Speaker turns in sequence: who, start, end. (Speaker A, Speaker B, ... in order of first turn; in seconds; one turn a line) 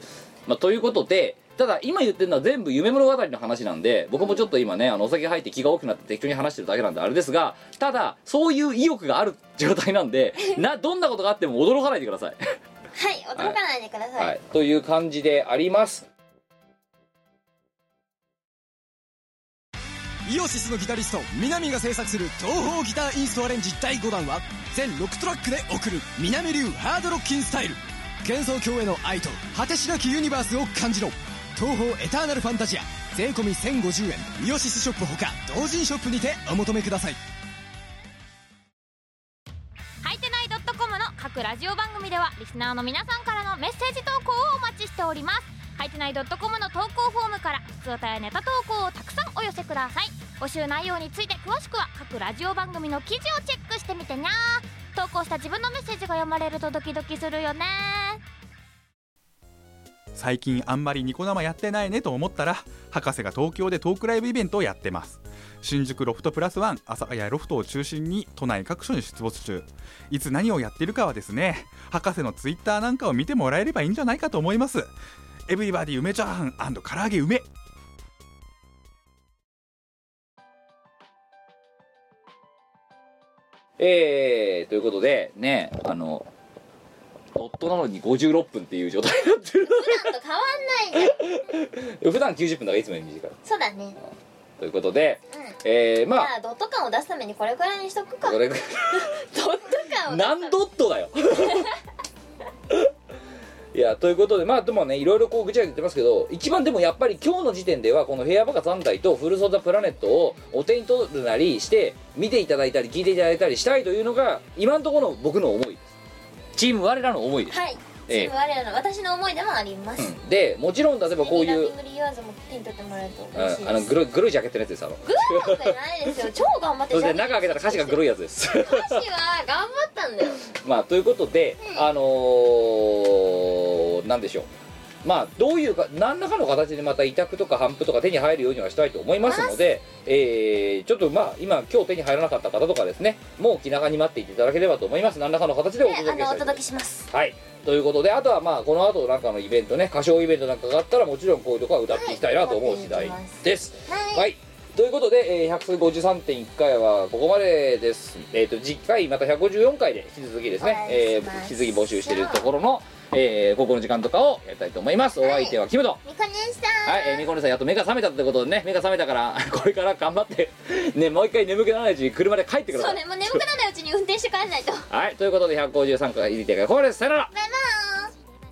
Speaker A: 0.5-12.4
Speaker B: 4.2-4.5
Speaker B: 12.9-14.3
Speaker A: 14.2-16.1
Speaker C: 20.2-37.2
Speaker D: 40.0-58.2
Speaker E: 60.1-74.9
Speaker E: 75.5-77.5
Speaker A: 83.8-86.2
Speaker A: 87.3-90.1
Speaker B: 89.6-91.2
Speaker A: 90.9-93.3
Speaker B: 93.4-94.0
Speaker A: 94.6-96.3
Speaker B: 96.1-98.4
Speaker A: 98.2-99.1
Speaker B: 98.9-100.5
Speaker A: 100.1-101.7
Speaker A: 103.7-115.9
Speaker A: 116.5-118.3
Speaker B: 117.5-120.1
Speaker A: 120.0-121.7
Speaker B: 121.1-123.9
Speaker A: 123.3-125.8
Speaker B: 125.0-130.4
Speaker A: 126.9-129.0
Speaker A: 130.4-134.5
Speaker B: 131.6-131.9
Speaker A: 135.0-166.0
Speaker B: 139.2-139.6
Speaker B: 145.8-147.1
Speaker B: 151.9-154.3
Speaker B: 160.6-162.5
Speaker B: 165.2-167.2
Speaker A: 166.8-173.4
Speaker B: 172.7-174.9
Speaker A: 174.9-177.3
Speaker B: 177.3-178.1